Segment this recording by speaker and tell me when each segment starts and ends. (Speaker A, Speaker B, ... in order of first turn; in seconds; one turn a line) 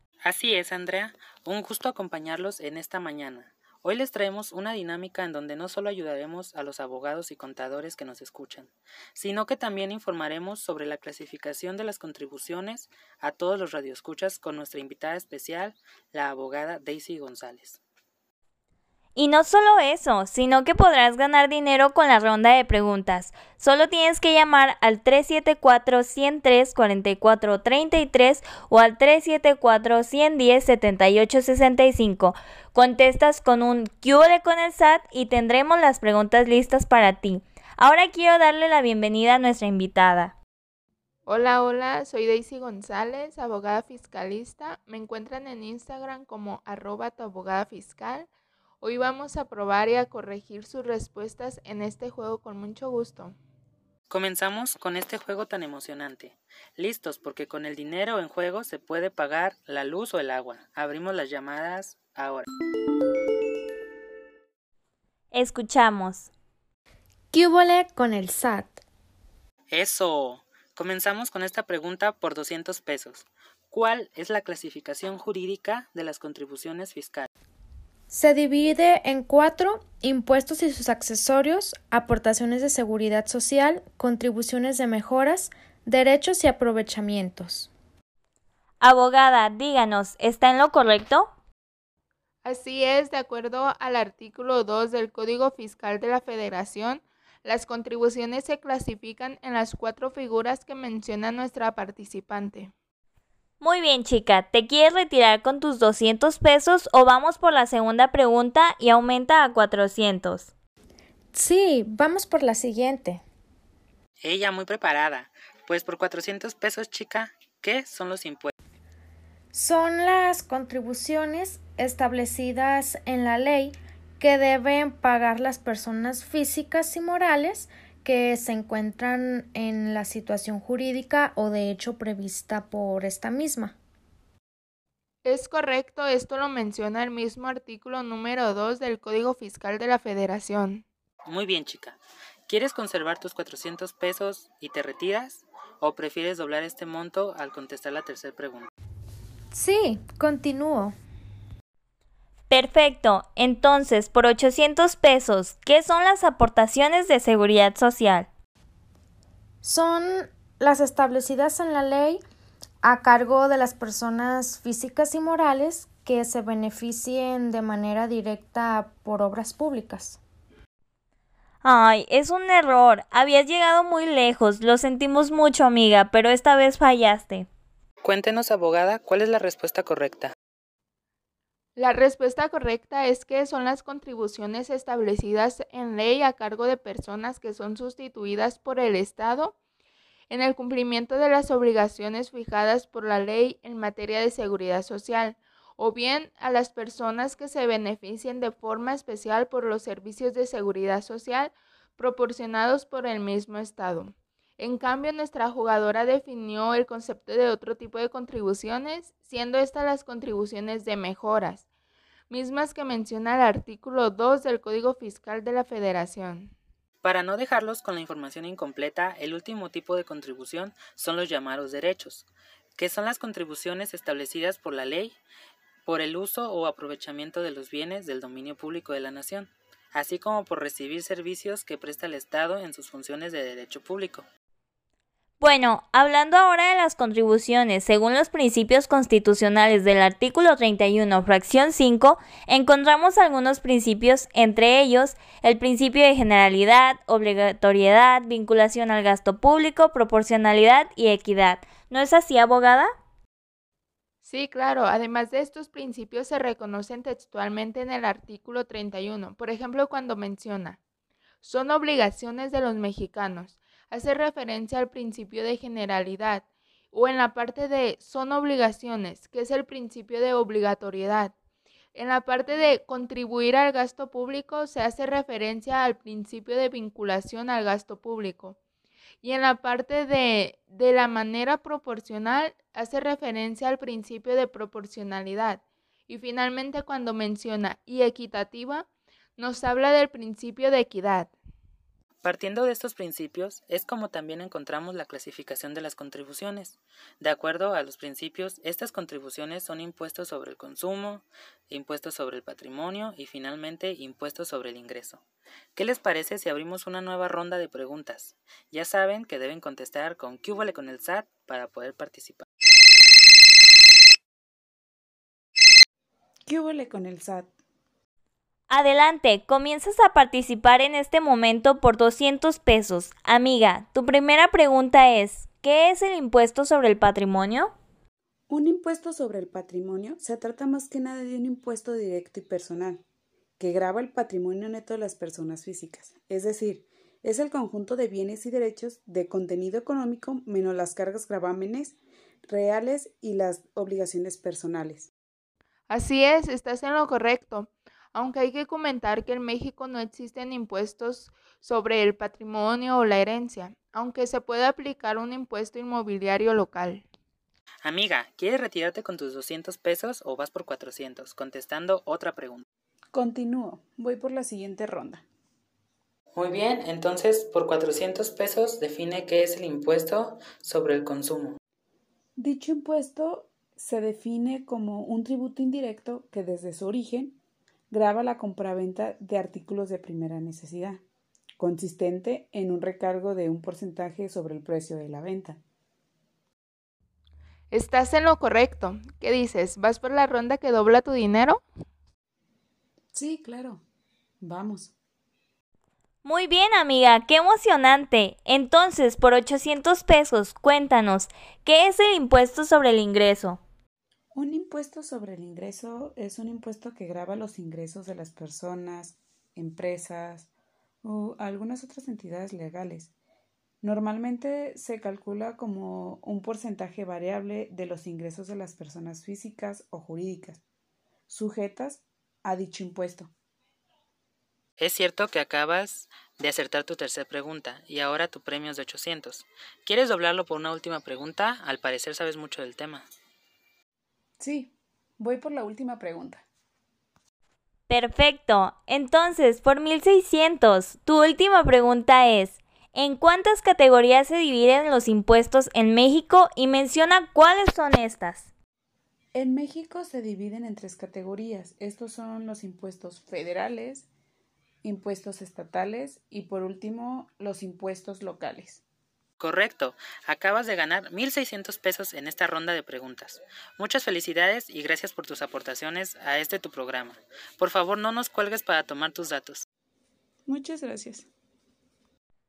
Speaker A: 0.2-17.8
Speaker B: 19.1-40.3
Speaker C: 41.3-48.3
Speaker C: 48.8-53.3
Speaker A: 54.1-62.5
Speaker B: 65.3-66.3
Speaker D: 67.3-68.8
Speaker A: 69.7-77.3
Speaker D: 78.1-87.7
Speaker B: 88.8-91.3
Speaker C: 92.4-102.7
Speaker B: 103.6-110.5
Speaker D: 111.3-113.2
Speaker A: 114.2-118.5
Speaker D: 119.5-133.7
Speaker C: 135.2-140.8
Speaker A: 141.3-148.7
Speaker D: 149.5-150.9
Speaker B: 152.5-158.3
Speaker D: 159.6-162.2
Speaker D: 162.8-170.2
Speaker B: 171.6-177.5
Speaker A: 178.0-180.3
Speaker C: 181.8-189.5
Speaker C: 190.3-211.6
Speaker C: 212.3-216.5
Speaker A: 217.0-225.2
Speaker A: 225.8-234.2
Speaker B: 235.4-252.9
Speaker C: 254.2-260.8
Speaker C: 261.4-271.3
Speaker C: 271.9-278.6
Speaker C: 279.2-291.3
Speaker A: 292.2-305.2
Speaker A: 305.8-312.4
Speaker E: 316.4-317.5
Speaker B: 318.7-327.7
Speaker E: 328.5-333.0
Speaker E: 333.6-341.9
Speaker E: 342.5-345.1
Speaker C: 345.9-357.0
Speaker A: 357.8-362.6
Speaker E: 363.1-365.2
Speaker A: 366.3-371.6
Speaker E: 372.4-377.4
Speaker E: 377.9-381.0
Speaker E: 381.6-385.6
Speaker C: 387.7-391.6
Speaker E: 393.1-393.8
Speaker E: 394.4-394.9
Speaker B: 396.2-403.6
Speaker E: 404.3-410.5
Speaker E: 411.0-413.1
Speaker E: 413.8-420.6
Speaker E: 421.3-423.3
Speaker A: 424.8-433.1
Speaker E: 434.4-436.4
Speaker B: 437.9-448.5
Speaker E: 449.3-454.1
Speaker E: 454.8-458.8
Speaker A: 459.4-469.6
Speaker E: 470.5-471.3